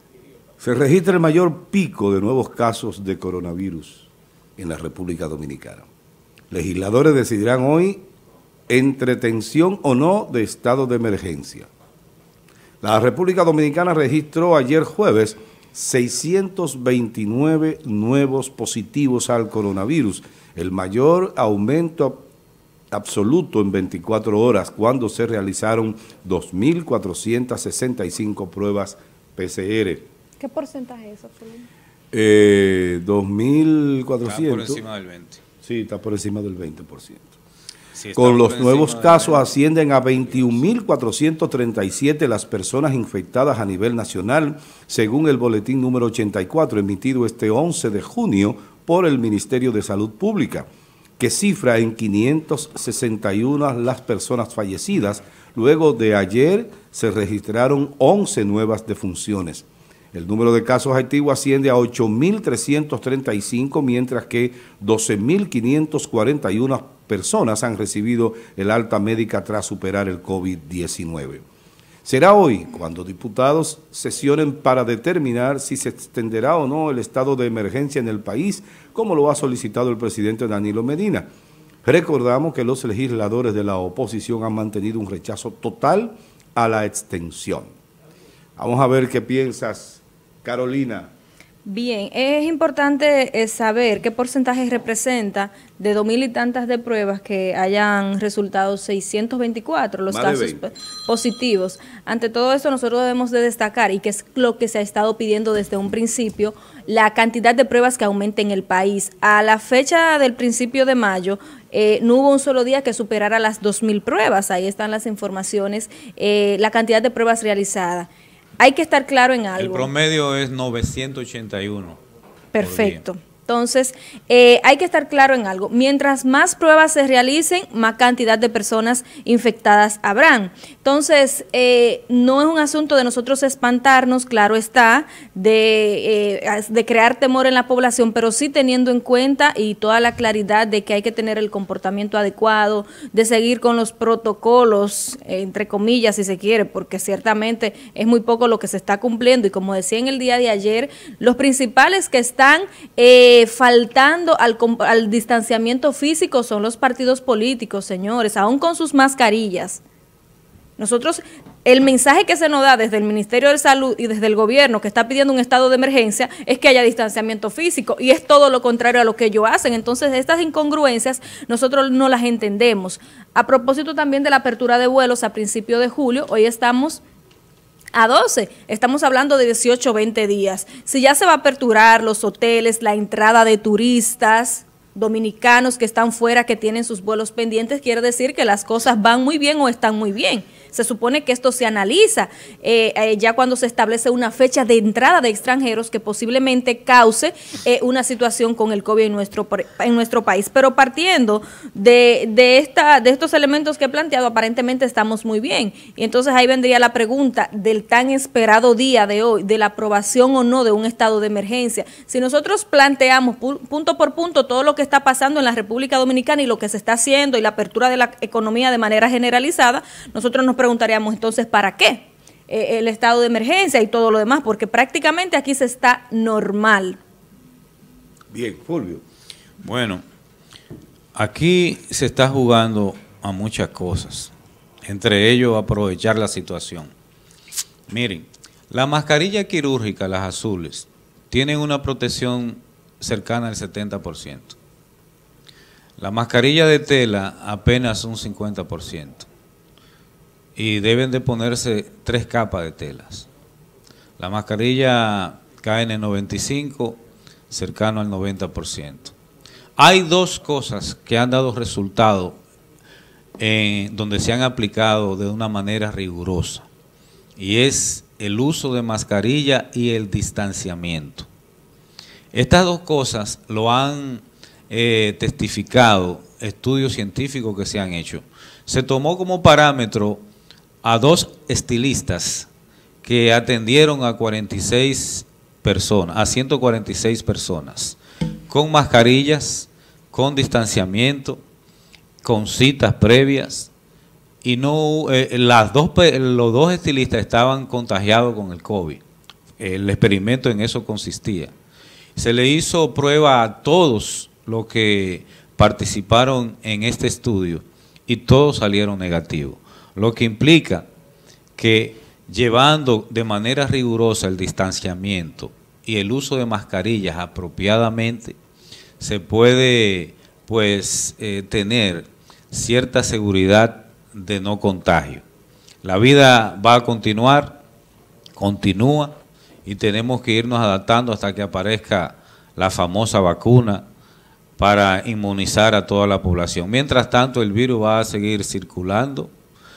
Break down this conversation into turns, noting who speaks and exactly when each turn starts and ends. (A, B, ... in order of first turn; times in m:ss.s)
0:00.6-0:05.8 A
0:06.5-0:08.0 A
0:08.7-0:11.7 A
0:12.8-0:22.2 A
0:22.9-0:30.0 A
0:30.4-0:31.6 B
0:32.1-0:34.8 A
0:34.2-0:35.4 C
0:35.6-0:37.3 A
0:37.9-0:40.7 C
0:38.1-0:50.7 A
0:51.2-1:11.4 A
1:12.0-1:21.3 A
1:21.8-1:27.7 A
1:28.6-1:31.1 A
1:31.6-1:59.9 B
1:40.1-1:40.6 A
1:59.6-2:02.0 C
2:02.5-2:39.8 B
2:02.6-2:03.0 C
2:40.8-2:57.0 B
2:57.9-3:47.0 B
3:48.3-3:49.0 A
3:49.6-3:50.0 C
3:51.1-3:54.3 C
3:54.8-3:56.9 C
3:57.9-4:04.6 C
4:06.0-4:09.3 C
4:10.6-4:13.3 C
4:14.2-4:19.1 C
4:19.8-4:22.4 C
4:23.4-4:26.6 C
4:27.4-4:31.3 C
4:32.3-4:40.2 C
4:40.8-4:42.5 C
4:43.0-4:51.4 C
4:52.2-4:53.7 C
4:54.4-4:59.0 C
4:59.6-5:01.5 C
5:02.2-5:10.9 C
5:11.6-5:18.4 C
5:19.0-5:25.2 C
5:25.8-5:27.6 C
5:28.4-5:33.8 C
5:34.6-5:39.3 C